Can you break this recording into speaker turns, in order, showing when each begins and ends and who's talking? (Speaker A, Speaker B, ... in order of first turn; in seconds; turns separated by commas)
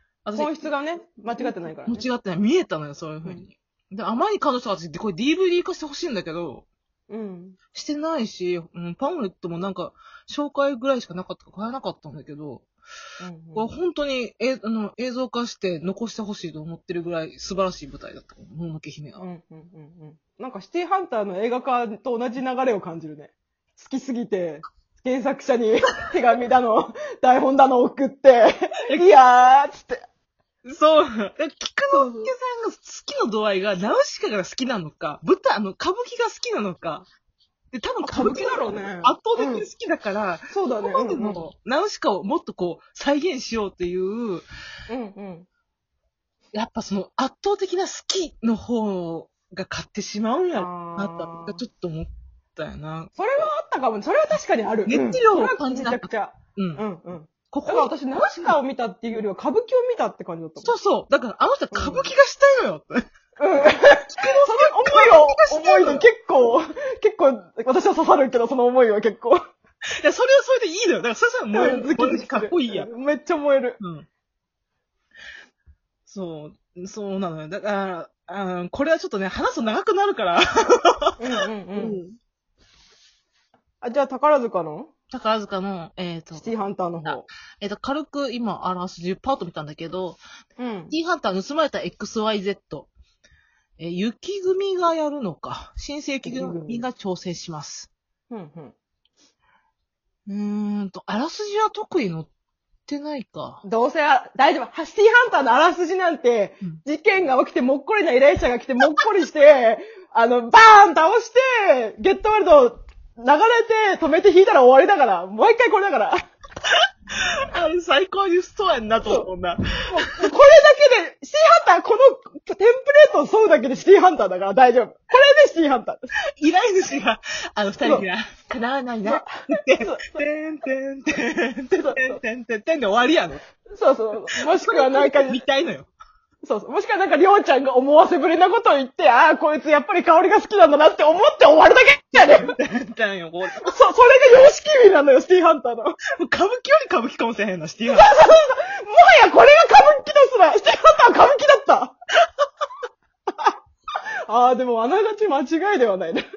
Speaker A: 0.2-0.5, Speaker B: 0.3-2.1, Speaker A: 1.4-6.7, Speaker B: 7.1-7.6, Speaker A: 7.7-12.7, Speaker B: 13.2-13.7, Speaker A: 13.6-19.2, Speaker B: 19.2-30.1, Speaker A: 30.6-37.1, Speaker B: 31.9-32.3, Speaker A: 37.7-44.5, Speaker B: 38.0-39.7, Speaker B: 40.5-41.4, Speaker B: 44.9-45.5, Speaker A: 46.5-53.1, Speaker B: 50.5-51.6, Speaker B: 53.2-60.8, Speaker A: 54.9-56.8, Speaker A: 57.5-58.6, Speaker A: 60.6-63.0, Speaker B: 61.7-62.1, Speaker B: 63.4-69.4, Speaker A: 64.1-66.1, Speaker A: 70.0-72.9, Speaker B: 71.5-73.8, Speaker A: 73.8-74.1, Speaker A: 76.1-81.2, Speaker B: 81.2-82.0, Speaker A: 81.8-82.2, Speaker B: 83.8-84.9, Speaker A: 85.1-86.5, Speaker B: 86.3-87.3, Speaker A: 87.0-90.2, Speaker B: 90.6-91.0, Speaker A: 90.9-92.9, Speaker A: 93.8-97.9, Speaker B: 96.2-96.9, Speaker B: 98.3-98.8, Speaker A: 100.3-102.3, Speaker A: 102.9-103.6, Speaker B: 103.6-116.2, Speaker A: 117.1-120.3, Speaker B: 119.9-126.1, Speaker A: 126.4-133.4, Speaker B: 129.1-130.2, Speaker B: 131.7-132.2, Speaker B: 133.7-135.4, Speaker A: 134.4-135.9, Speaker B: 136.4-142.5, Speaker A: 142.2-143.7, Speaker B: 143.6-146.0, Speaker A: 146.2-148.1, Speaker B: 147.9-152.0, Speaker B: 154.3-156.2